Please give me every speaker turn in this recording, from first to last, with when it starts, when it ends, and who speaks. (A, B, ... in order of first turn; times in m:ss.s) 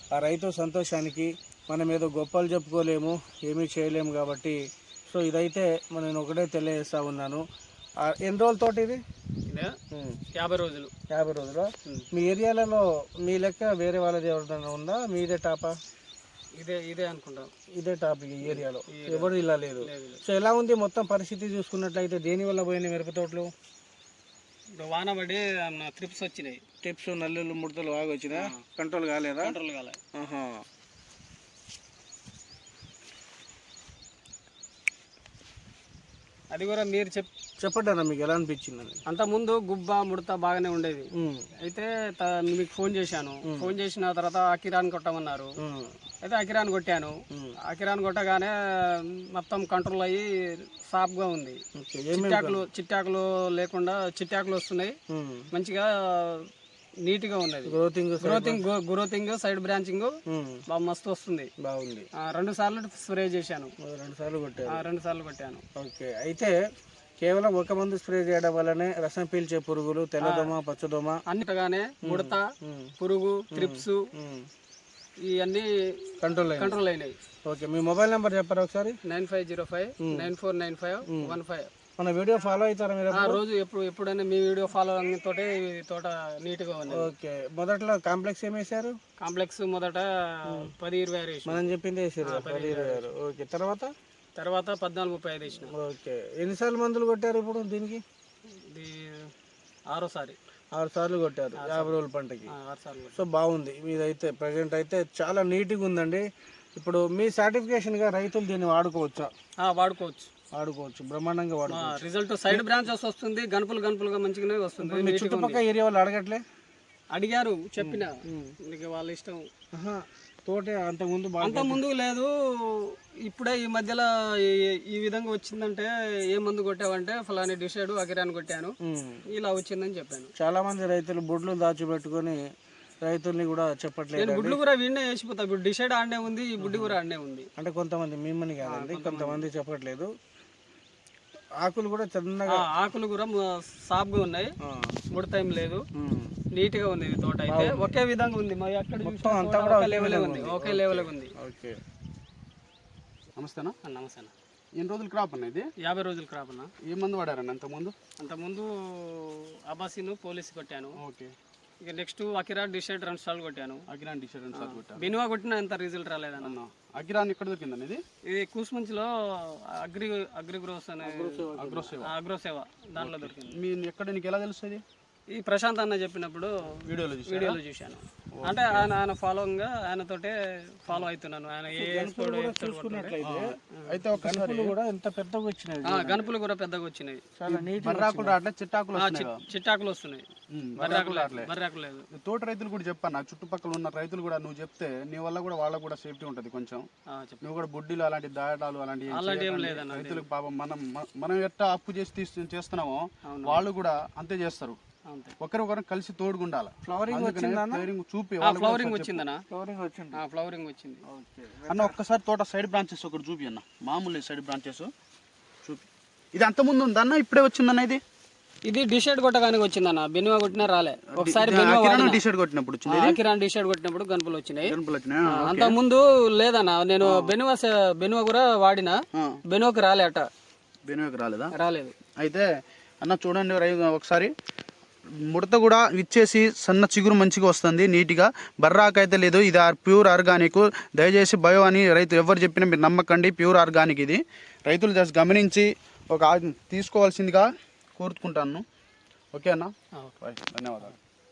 0:00.1-0:07.4 A
0:08.0-0:09.0 A
0:09.5-0:09.7 B
0:09.9-0:10.2 A
0:10.3-0:10.9 B
0:11.1-0:15.8 A
0:16.6-0:17.5 B
0:17.8-0:23.5 A
0:18.4-0:20.2 B
0:24.8-0:26.6 B
0:26.8-0:29.6 A
0:29.4-0:30.0 B
0:30.1-0:30.6 A
0:36.5-0:37.3 B
0:37.6-0:39.0 A
0:39.1-0:41.1 B
0:41.2-0:41.4 A
0:41.6-0:45.5 B
0:43.5-0:43.7 A
0:45.6-0:45.9 A
0:46.2-0:47.1 B
0:47.7-0:48.5 B
0:49.3-0:51.6 B
0:51.8-0:52.6 A
0:52.1-0:55.0 B
0:55.1-0:55.4 A
0:55.5-0:56.5 B
0:57.0-1:00.1 B
0:57.6-0:58.6 A
1:00.3-1:00.6 A
1:00.7-1:01.5 B
1:01.6-1:02.1 A
1:02.2-1:03.7 B
1:03.8-1:04.8 A
1:04.7-1:05.6 B
1:05.8-1:06.5 A
1:07.2-1:11.2 A
1:10.2-1:10.5 B
1:11.3-1:12.5 B
1:12.0-1:12.9 A
1:13.0-1:14.0 B
1:13.5-1:14.5 A
1:15.3-1:17.1 B
1:16.2-1:16.8 A
1:17.4-1:19.0 A
1:19.0-1:21.7 B
1:20.0-1:20.3 A
1:21.1-1:21.4 A
1:22.0-1:23.4 A
1:23.1-1:27.1 B
1:26.9-1:29.0 A
1:29.2-1:31.6 B
1:31.4-1:33.9 A
1:32.2-1:33.0 B
1:34.4-1:35.7 B
1:35.5-1:38.0 A
1:38.6-1:39.3 B
1:39.9-1:40.4 B
1:40.7-1:42.5 A
1:41.6-1:43.2 B
1:43.1-1:46.2 A
1:46.8-1:49.3 A
1:49.6-1:50.3 B
1:50.5-1:52.6 A
1:51.7-1:55.6 B
1:54.8-1:56.4 A
1:57.1-1:59.5 B
1:57.8-1:58.5 A
1:59.7-2:01.8 A
2:01.4-2:08.7 B
2:08.8-2:09.2 A
2:09.3-2:10.3 B
2:10.4-2:12.4 A
2:13.0-2:14.6 A
2:14.2-2:17.5 B
2:16.6-2:17.0 A
2:17.6-2:20.1 A
2:18.6-2:19.5 B
2:21.6-2:22.6 A
2:22.5-2:24.5 B
2:24.6-2:25.0 A
2:25.1-2:25.8 B
2:26.0-2:26.3 A
2:26.5-2:31.3 B
2:27.5-2:27.9 A
2:29.0-2:31.8 A
2:33.4-2:33.8 C
2:33.8-2:34.3 B
2:34.7-2:35.7 C
2:35.8-2:36.7 B
2:36.8-2:37.9 C
2:38.2-2:40.9 B
2:41.0-2:41.3 C
2:41.8-2:43.8 B
2:43.9-2:45.1 C
2:44.5-2:46.6 B
2:46.4-2:48.0 C
2:48.3-2:51.4 B
2:51.0-2:51.9 A
2:51.5-2:52.1 C
2:52.0-2:53.6 B
2:53.0-2:54.8 C
2:55.4-2:56.5 B
2:56.8-2:57.6 C
2:57.2-3:03.2 B
2:58.4-2:58.9 C
3:01.7-3:03.6 A
3:03.2-3:04.8 C
3:04.1-3:06.2 A
3:05.8-3:07.3 B
3:07.4-3:08.4 A
3:07.5-3:09.4 C
3:08.9-3:10.2 B
3:10.5-3:11.5 C
3:10.8-3:12.0 B
3:12.1-3:16.9 C
3:17.1-3:17.4 B
3:17.4-3:24.8 C
3:19.1-3:20.2 B
3:23.2-3:23.6 B
3:25.1-3:25.3 B
3:25.4-3:29.2 C
3:26.8-3:27.9 A
3:28.4-3:29.4 B
3:29.5-3:30.2 A
3:30.1-3:31.0 B
3:31.1-3:32.0 A
3:31.7-3:34.9 C
3:35.6-3:38.0 C
3:38.6-3:42.2 B
3:41.1-3:43.2 C
3:42.8-3:44.7 B
3:44.6-3:45.8 C
3:45.2-3:50.3 B
3:47.0-3:47.3 C
3:49.1-3:49.4 C
3:50.8-3:51.5 C
3:51.5-3:51.9 B
3:52.2-3:52.5 C
3:53.0-3:54.3 C
3:55.2-4:08.6 C
4:09.3-4:11.0 C